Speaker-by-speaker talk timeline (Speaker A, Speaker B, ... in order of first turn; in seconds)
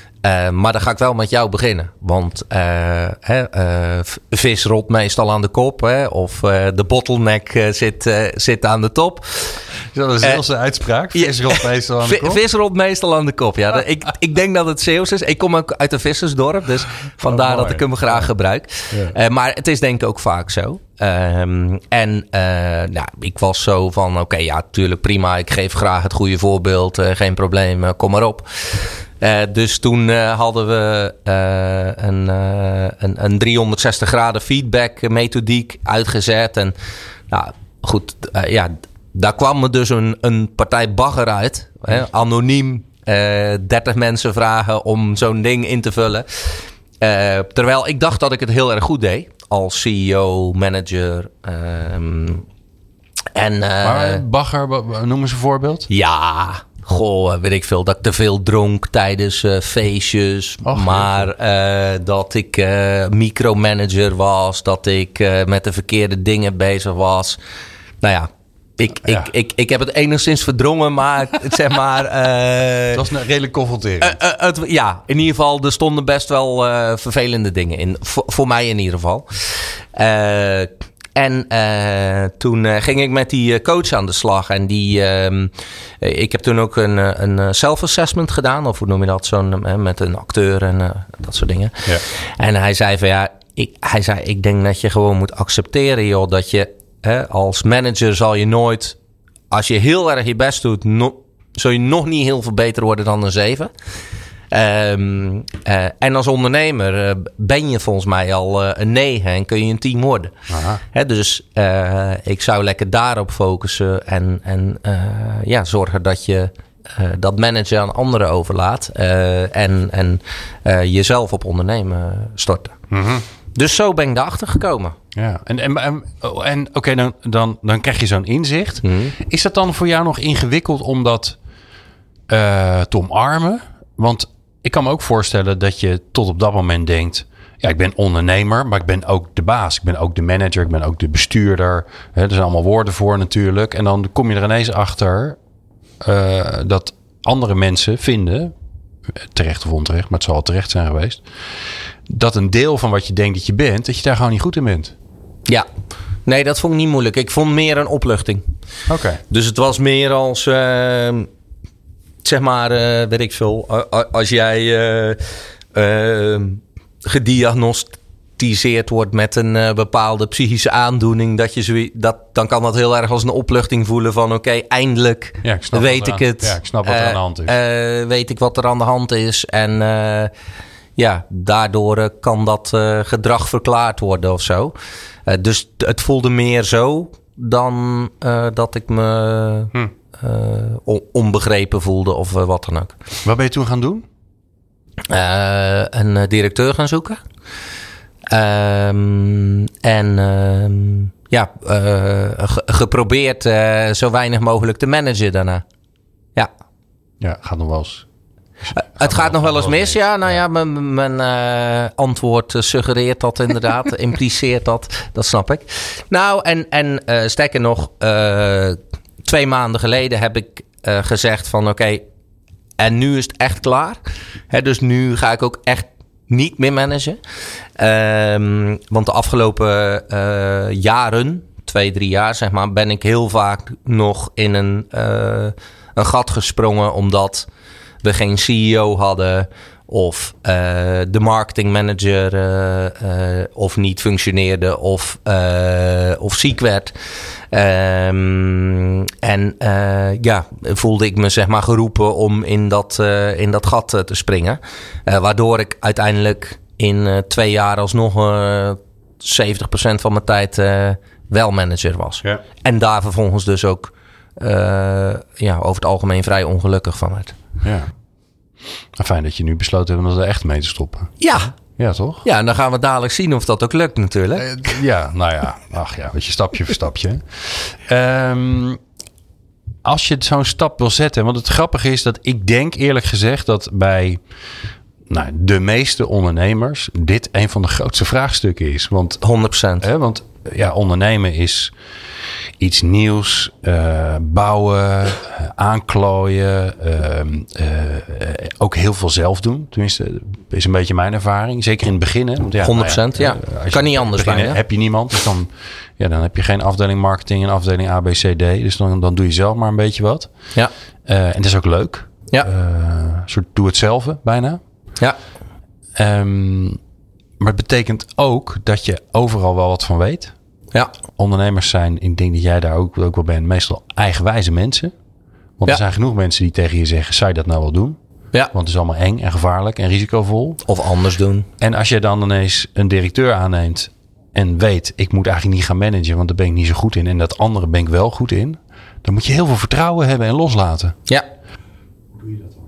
Speaker A: 0.2-9.7, 11.1-36.7, 37.3-52.5, 53.4-54.2, 55.9-67.4, 68.0-73.0, 74.0-99.0, 99.5-103.7, 104.5-110.3, 110.9-122.8, 123.5-125.0, 128.8-129.2, 156.3-158.4, 159.3-161.3, 162.2-180.3, 181.0-184.8, 185.3-193.0, 195.1-197.2, 198.3-205.6, 208.7-222.0, 222.8-227.2, 227.8-237.5, 238.0-246.9, 247.5-267.4, 271.2-271.5, 272.2-274.5, 289.2-289.9, 302.6-304.6, 330.7-331.5
Speaker B: 9.9-12.4, 17.2-17.9, 53.8-55.9, 60.6-61.3, 72.9-74.2, 110.5-110.8, 122.9-123.2, 125.1-131.4, 132.3-145.4, 146.0-148.5, 149.2-151.2, 152.1-154.9, 158.9-159.2, 175.4-177.5, 193.2-194.1, 207.2-208.1, 208.6-210.4, 267.6-267.9, 269.0-271.1, 271.8-272.2, 274.4-278.8, 279.9-284.2, 285.1-289.2, 289.8-291.7, 292.6-310.3, 311.1-314.6, 316.0-316.8, 317.4-320.3, 321.2-324.9, 325.6-328.0, 328.5-330.6, 331.6-341.0